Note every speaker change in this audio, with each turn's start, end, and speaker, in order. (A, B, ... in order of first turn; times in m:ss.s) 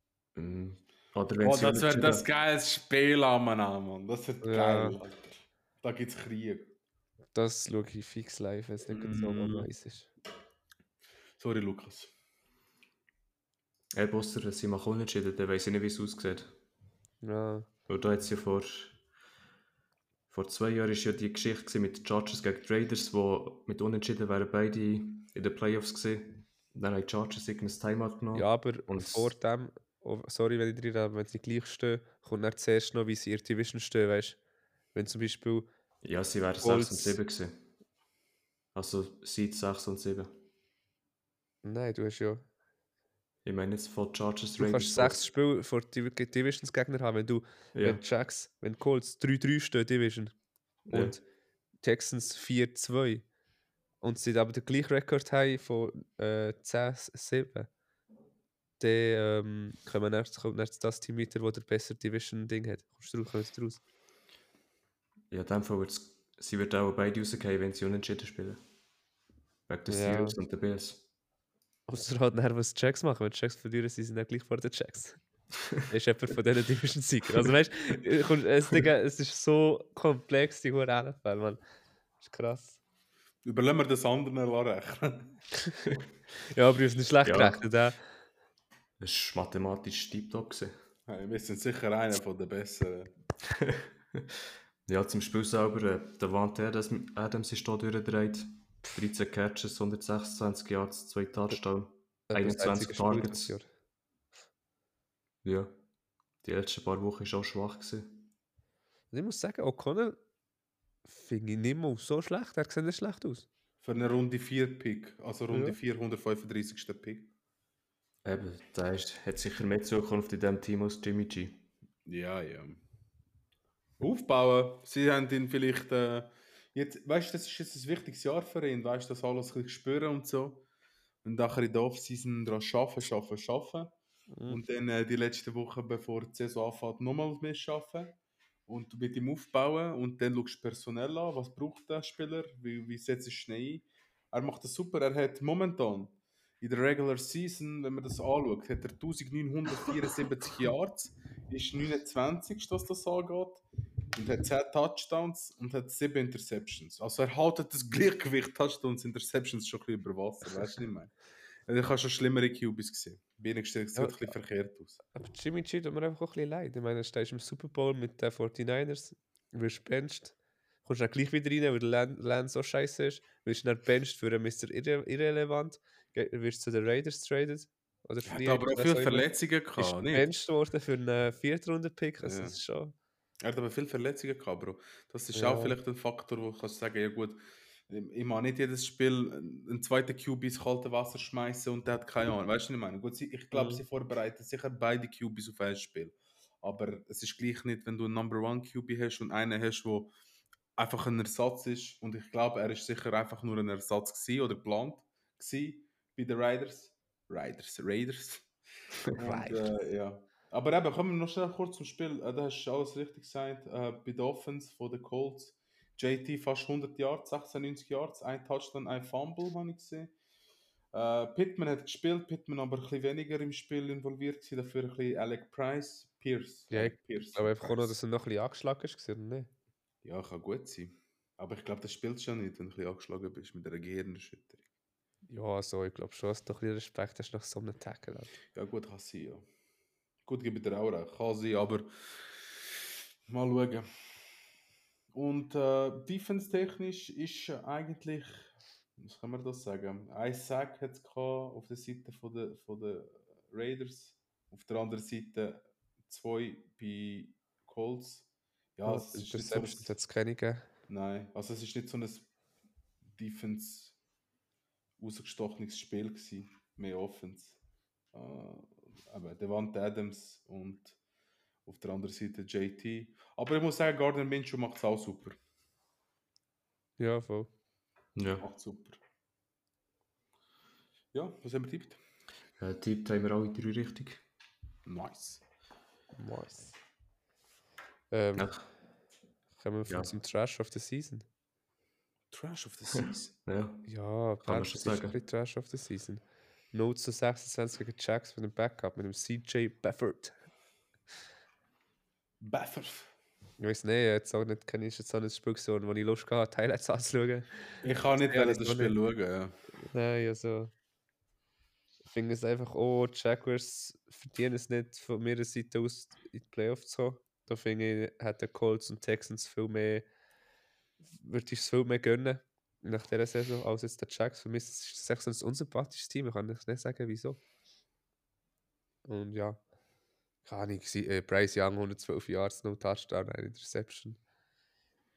0:00.3-0:02.2 A
0:01.4-0:06.7 B
0:04.4-0:05.0 C
0:07.3-0:10.1 C
0:08.9-0:09.7 B
0:11.4-0:12.1 B
0:13.9-0:16.5 A
0:17.2-0:17.7 C
0:17.9-0:19.0 A
0:20.3-0:29.3 A
0:28.3-0:34.4 C
0:34.9-0:35.7 C
0:36.0-0:37.6 A
0:36.6-0:37.2 C
0:38.7-0:40.3 A
0:41.6-0:42.4 C
0:43.4-0:45.2 A
0:44.6-0:50.3 C
0:47.7-0:48.0 A
0:50.9-0:51.2 C
0:50.9-0:51.2 A
0:51.8-0:53.2 C
0:54.0-0:57.7 C
0:58.8-1:03.8 C
1:05.3-1:08.6 A
1:09.7-1:11.0 A
1:09.9-1:10.4 C
1:11.9-1:15.2 C
1:15.8-1:21.6 C
1:22.2-1:22.8 C
1:23.4-1:25.4 B
1:26.5-1:28.0 C
1:27.2-1:27.6 A
1:29.0-1:30.7 A
1:31.1-1:33.1 B
1:33.6-1:43.6 A
1:42.3-1:43.6 C
1:45.4-1:45.8 A
1:46.4-1:48.3 A
1:49.1-1:50.2 C
1:51.0-1:53.5 C
1:53.8-1:57.3 B
1:55.5-1:55.8 C
1:58.2-2:01.6 A
2:02.1-2:02.8 B
2:04.0-2:10.6 B
2:11.2-2:13.9 B
2:14.3-2:14.6 C
2:14.5-2:18.2 B
2:18.7-2:41.1 B
2:41.7-2:45.0 B
2:44.0-2:44.3 C
2:45.1-3:02.9 C
2:58.3-3:00.3 B
3:02.2-3:02.6 B
3:03.4-3:20.1 B
3:05.3-3:05.8 C
3:13.5-3:13.8 C
3:20.8-3:28.5 B
3:29.1-3:40.1 B
3:29.2-3:29.7 C
3:40.9-3:47.9 B
3:46.7-3:49.5 C
3:50.0-3:54.6 B
3:55.3-3:58.4 C
3:58.5-3:59.4 B
4:00.2-4:01.9 B
4:03.3-4:03.9 B
4:05.1-4:08.5 B
4:09.0-4:19.9 B
4:18.8-4:20.7 C
4:20.9-4:22.3 B
4:23.2-4:24.0 B
4:25.0-4:27.6 B
4:28.1-4:31.0 B
4:31.6-4:35.4 B
4:37.0-4:37.5 C
4:38.2-4:38.4 A
4:38.4-4:39.0 B
4:41.1-4:42.0 B
4:42.6-4:44.2 A
4:44.8-4:45.4 B
4:46.2-4:46.7 C
4:48.1-4:48.6 C
4:48.4-4:48.6 A
4:49.6-4:51.2 C
4:49.9-4:50.1 A
4:52.3-4:53.3 B
4:53.4-4:53.9 A
4:53.9-5:00.3 C
4:54.4-4:55.2 A
5:02.4-5:03.1 B
5:03.6-5:09.0 C
5:07.8-5:09.5 B
5:09.9-5:10.7 C
5:12.0-5:20.0 C
5:21.1-5:27.4 C
5:29.0-5:29.6 C
5:30.4-5:34.2 C